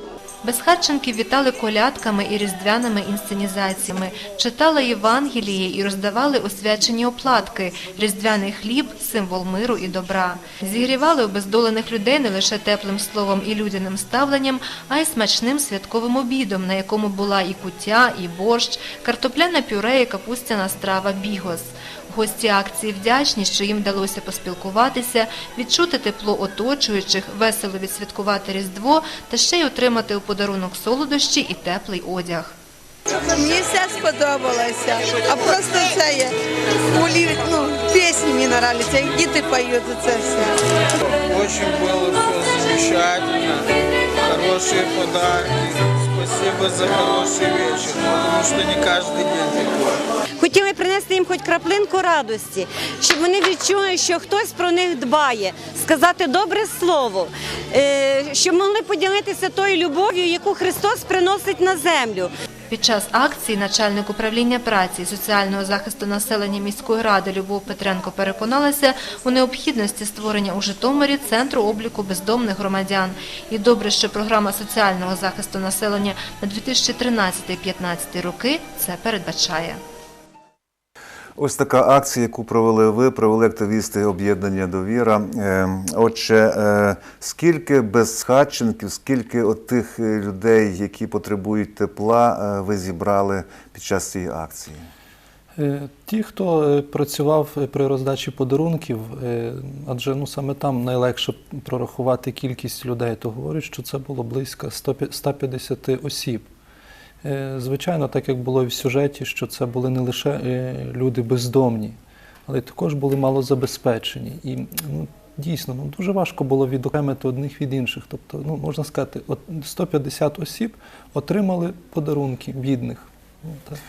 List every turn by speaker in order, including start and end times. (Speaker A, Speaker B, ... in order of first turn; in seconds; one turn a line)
Speaker A: 0.4-32.5
Speaker B: 33.2-36.3
Speaker B: 36.9-40.5
Speaker C: 41.0-50.0
Speaker D: 50.4-62.3
Speaker A: 62.7-79.8
Speaker E: 81.4-94.9
Speaker F: 95.5-106.5
Speaker F: 107.2-123.8